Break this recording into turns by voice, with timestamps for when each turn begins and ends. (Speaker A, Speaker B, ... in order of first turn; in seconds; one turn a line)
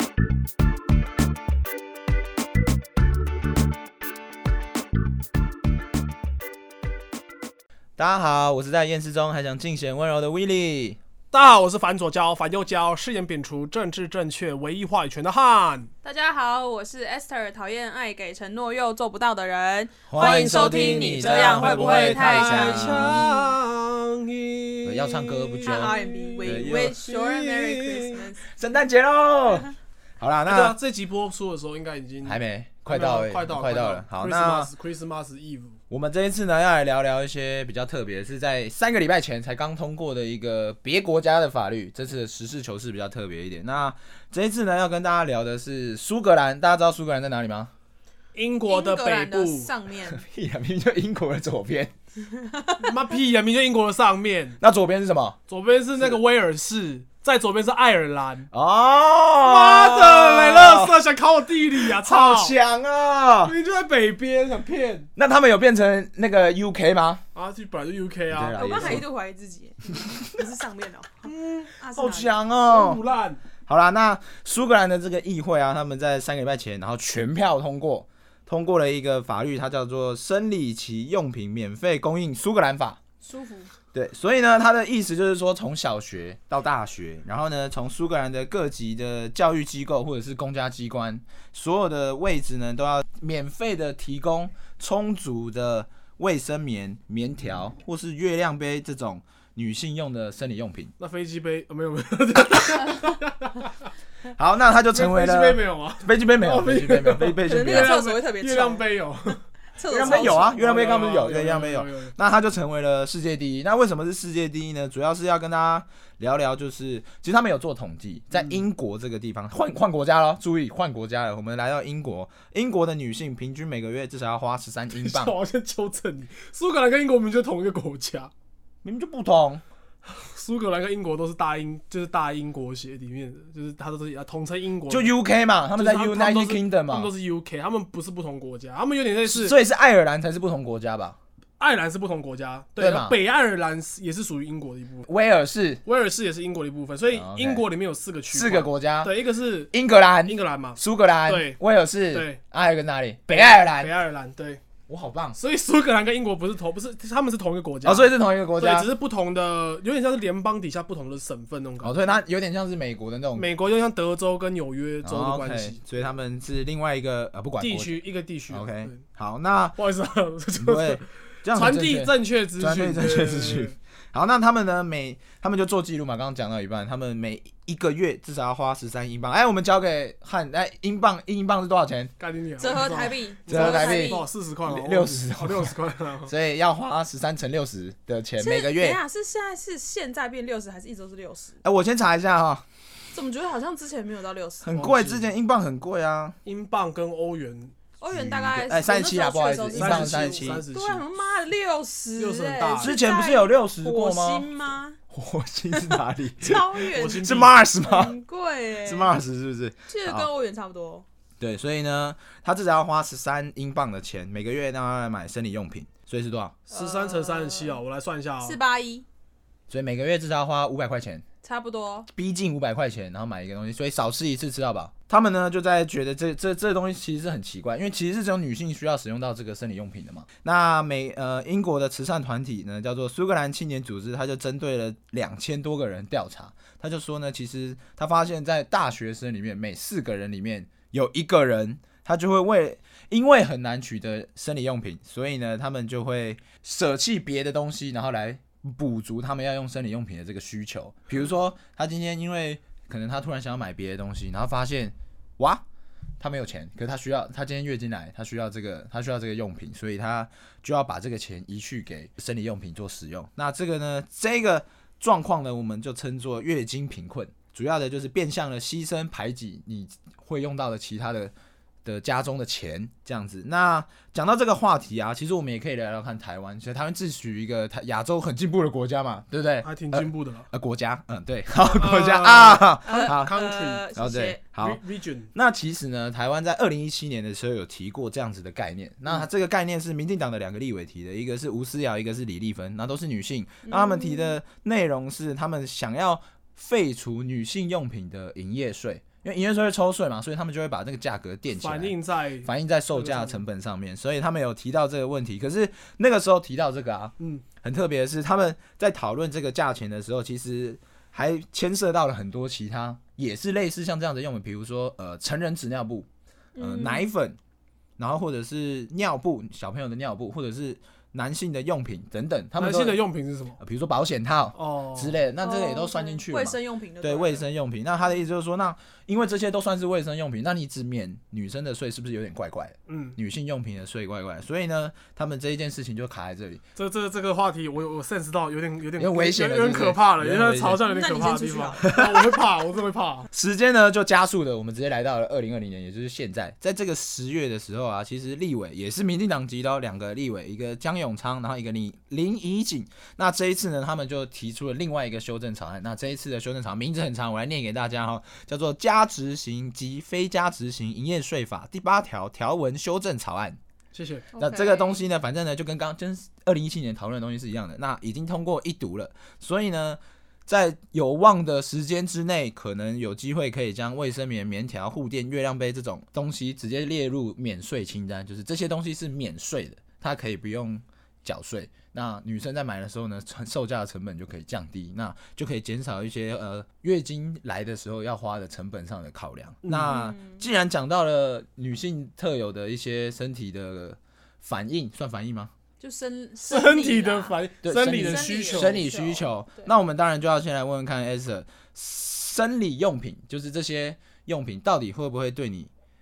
Speaker A: 8.0-11.0
Speaker B: 11.3-15.9
Speaker C: 16.0-23.4
Speaker A: 20.1-23.3
Speaker B: 20.2-28.3
Speaker A: 24.8-27.0
Speaker C: 25.6-28.5
Speaker A: 28.5-30.8
Speaker B: 30.4-35.8
Speaker A: 32.2-34.7
Speaker A: 35.9-47.7
Speaker B: 48.3-49.7
Speaker C: 48.7-50.2
Speaker A: 50.1-51.9
Speaker C: 52.4-52.9
Speaker B: 52.8-54.6
Speaker A: 54.6-55.4
Speaker B: 55.5-58.5
Speaker A: 58.5-61.0
Speaker B: 59.4-62.5
Speaker A: 61.8-63.5
Speaker B: 63.4-65.1
Speaker A: 65.2-67.2
Speaker B: 67.3-69.0
Speaker A: 68.3-69.0
Speaker C: 68.5-72.3
Speaker A: 70.1-70.4
Speaker B: 71.2-71.7
Speaker A: 72.0-73.0
Speaker B: 72.7-73.4
Speaker A: 73.7-83.0
Speaker C: 83.2-83.7
Speaker A: 83.9-100.9
Speaker B: 101.0-103.9
Speaker A: 104.3-108.0
Speaker B: 104.9-109.4
Speaker C: 107.5-110.6
Speaker A: 109.9-125.3
Speaker B: 110.0-112.1
Speaker B: 124.9-128.3
Speaker A: 128.8-129.6
Speaker B: 130.0-135.1
Speaker A: 134.9-137.1
Speaker B: 135.8-139.5
Speaker A: 139.2-141.2
Speaker B: 141.6-145.1
Speaker A: 142.8-143.2
Speaker A: 145.1-145.8
Speaker B: 145.8-149.7
Speaker A: 147.1-147.6
Speaker A: 148.3-149.1
Speaker A: 149.7-153.9
Speaker B: 150.2-151.6
Speaker B: 152.1-152.4
Speaker B: 153.3-154.6
Speaker A: 154.9-155.4
Speaker B: 155.3-162.2
Speaker A: 157.8-158.9
Speaker A: 161.8-163.5
Speaker B: 163.3-166.1
Speaker A: 165.0-169.8
Speaker B: 167.6-169.0
Speaker B: 169.8-173.7
Speaker A: 170.6-182.1
Speaker B: 182.2-186.3
Speaker C: 182.6-184.3
Speaker A: 183.5-185.7
Speaker A: 186.3-189.0
Speaker C: 188.4-191.6
Speaker A: 191.6-192.6
Speaker C: 193.1-194.7
Speaker A: 194.6-196.3
Speaker B: 194.7-195.3
Speaker B: 196.4-197.8
Speaker C: 198.0-205.0
Speaker A: 198.1-200.6
Speaker B: 199.7-201.0
Speaker B: 202.2-202.9
Speaker A: 202.8-204.5
Speaker A: 205.1-208.1
Speaker C: 205.7-209.2
Speaker B: 206.9-207.5
Speaker A: 208.8-210.3
Speaker C: 209.9-211.1
Speaker A: 211.4-216.6
Speaker B: 216.7-218.6
Speaker C: 216.7-217.8
Speaker C: 218.4-219.1
Speaker A: 219.7-221.2
Speaker C: 221.4-222.1
Speaker A: 222.1-255.6
Speaker A: 256.2-271.3
Speaker A: 271.8-283.3
Speaker B: 279.6-280.5
Speaker B: 281.6-283.9
Speaker C: 282.9-284.4
Speaker A: 283.9-284.8
Speaker B: 284.6-285.3
Speaker A: 285.3-316.1
Speaker C: 293.6-294.4
Speaker B: 301.5-303.4
Speaker B: 307.2-307.4
Speaker C: 316.6-317.1
Speaker A: 316.6-317.4
Speaker A: 318.0-323.0
Speaker B: 322.6-323.6
Speaker A: 323.6-336.6
Speaker B: 324.5-325.2
Speaker C: 325.4-327.4
Speaker B: 332.9-333.2
Speaker B: 336.8-343.3
Speaker A: 339.0-340.8
Speaker C: 340.8-342.0
Speaker A: 343.3-363.6
Speaker B: 363.9-364.3
Speaker C: 364.3-365.0
Speaker A: 364.4-395.5
Speaker B: 389.6-389.9
Speaker C: 389.9-390.5
Speaker C: 395.8-397.4
Speaker B: 396.5-398.8
Speaker A: 397.6-405.7
Speaker C: 398.0-399.7